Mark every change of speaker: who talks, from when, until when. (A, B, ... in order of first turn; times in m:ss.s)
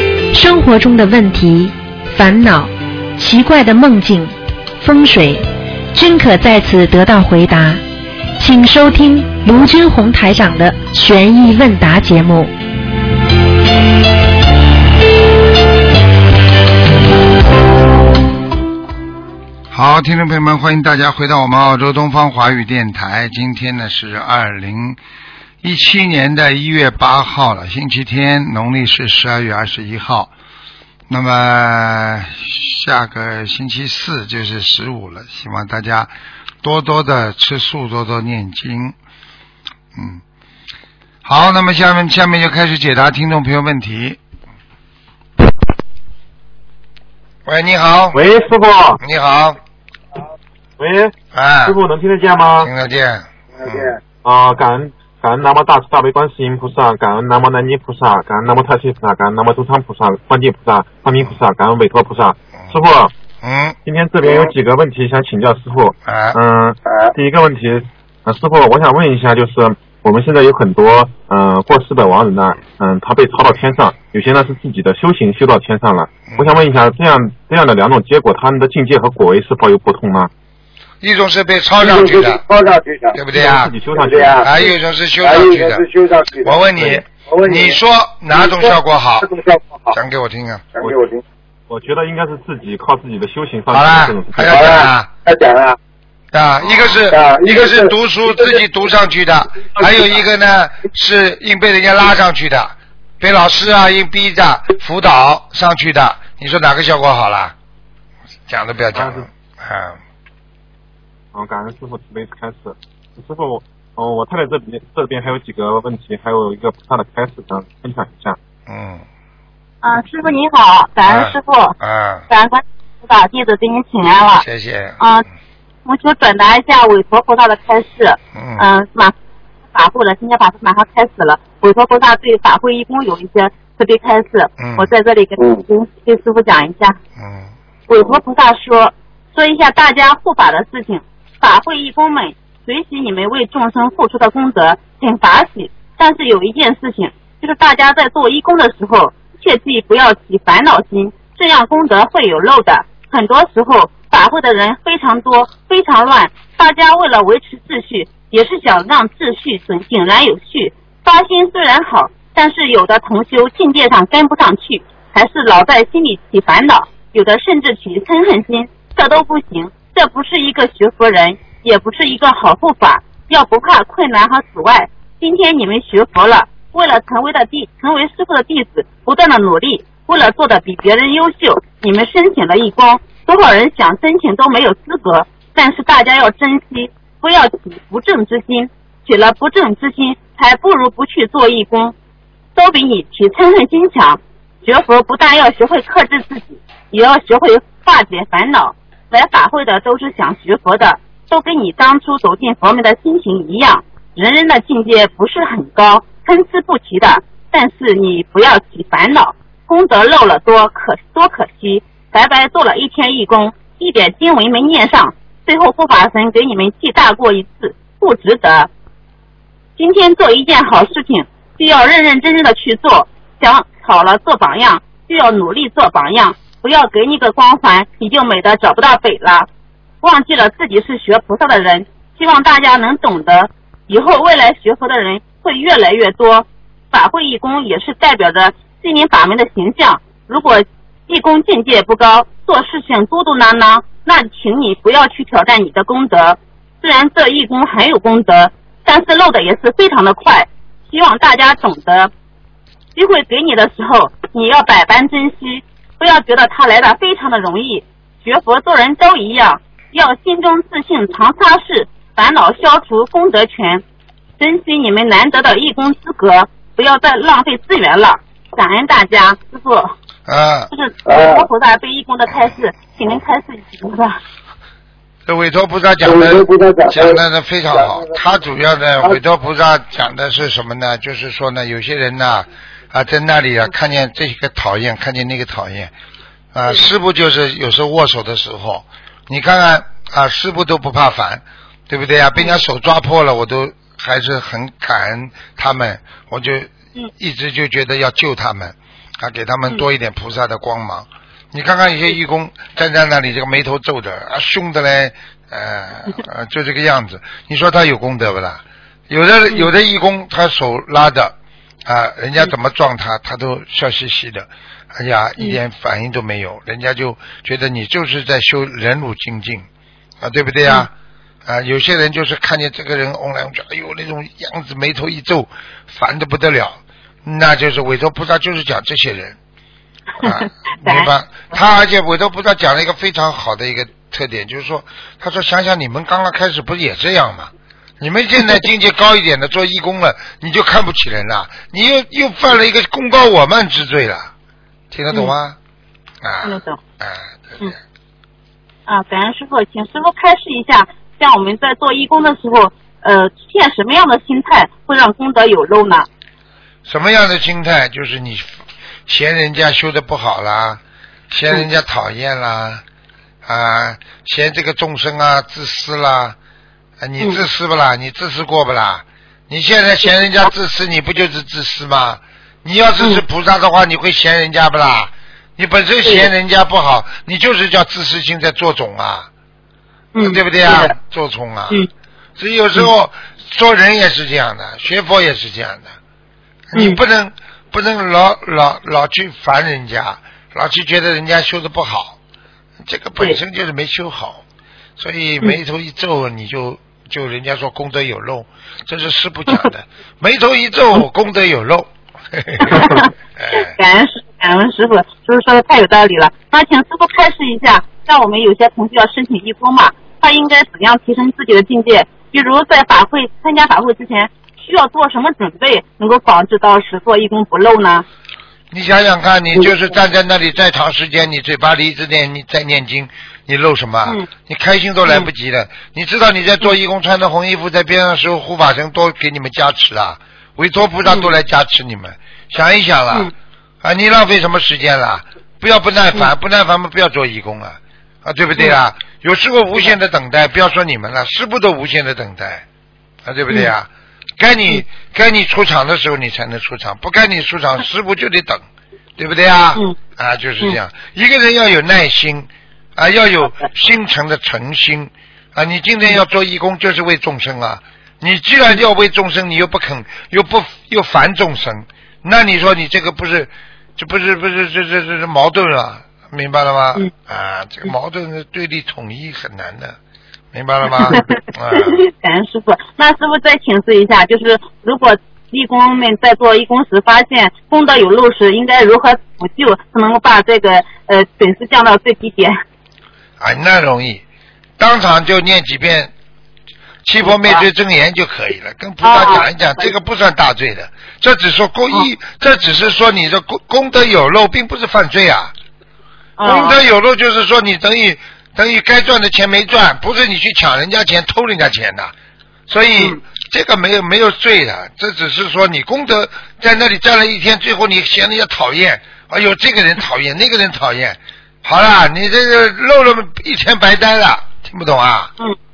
0:00.3-0:07.8 A
0:08.4-0:12.5 A
0:19.7-0:25.0 B
0:25.6-0:30.3 B
0:31.1-0:38.9 B
0:39.9-0:40.2 B
0:41.2-0:44.2 B
0:47.4-0:48.2 B
0:48.1-0:49.0 C
0:49.0-0:49.6 B
0:50.8-0:52.7 C
0:51.3-0:51.8 B
0:52.6-0:54.0 B
0:53.6-0:53.9 D
0:54.2-1:03.1 C
1:03.4-1:03.8 B
1:03.8-1:20.3 C
1:04.2-1:04.5 D
1:06.0-1:06.4 B
1:21.0-1:22.4 B
1:21.8-1:23.2 D
1:23.1-1:23.7 B
1:23.3-1:24.4 C
1:24.0-1:24.7 D
1:24.4-1:25.8 B
1:25.2-1:27.8 D
1:26.4-1:29.3 B
1:28.3-1:30.0 D
1:29.9-1:30.6 B
1:30.8-1:31.2 D
1:31.7-1:34.8 C
1:33.7-1:35.1 B
1:34.4-1:35.8 D
1:36.3-1:47.5 B
1:37.1-1:38.6 D
1:39.8-1:40.1 D
1:48.5-1:50.0 B
1:48.9-1:49.2 C
1:51.3-1:58.4 C
1:58.7-1:59.0 B
1:59.8-2:01.8 E
2:01.0-2:02.2 B
2:02.3-2:04.4 E
2:04.4-2:05.0 B
2:05.0-2:05.2 E
2:05.8-2:09.1 E
2:08.3-2:08.6 B
2:09.7-2:17.0 E
2:14.6-2:14.9 B
2:17.2-2:17.5 B
2:17.9-3:11.9 E
3:12.6-3:38.7 E
3:39.8-3:49.5 E
3:50.0-4:12.1 E
4:12.9-4:23.8 E
4:24.4-4:29.9 E
4:30.3-4:30.7 B
4:30.7-4:34.2 E
4:31.0-4:31.4 D
4:35.2-4:45.9 B
4:36.0-4:37.2 D
4:37.7-4:38.1 D
4:46.5-5:19.7 B
5:20.2-5:20.9 B
5:21.4-5:29.4 B
5:30.2-5:31.1 E
5:30.2-5:44.3 B
5:44.9-5:45.6 B
5:46.2-5:47.7 B
5:46.4-5:46.8 E
5:48.9-5:56.1 E
5:56.8-5:58.5 B
5:59.1-6:02.8 B
6:03.4-6:06.4 B
6:07.0-6:19.3 B
6:20.1-6:20.9 E
6:20.2-6:21.8 B
6:22.4-6:25.9 B
6:26.7-6:32.2 B
6:32.8-6:34.4 B
6:35.0-6:43.8 B
6:42.6-6:58.0 E
6:58.7-7:13.3 B
7:13.8-7:22.6 B
7:23.2-7:28.6 B
7:29.2-7:50.0 B
7:50.5-7:52.0 B
7:51.0-8:02.5 E
8:03.4-8:04.2 B
8:04.8-8:06.1 B
8:07.0-8:15.5 B
8:07.2-8:07.6 E
8:09.0-8:09.9 E
8:16.4-8:16.8 E
8:16.4-8:22.1 B
8:22.7-8:35.3 B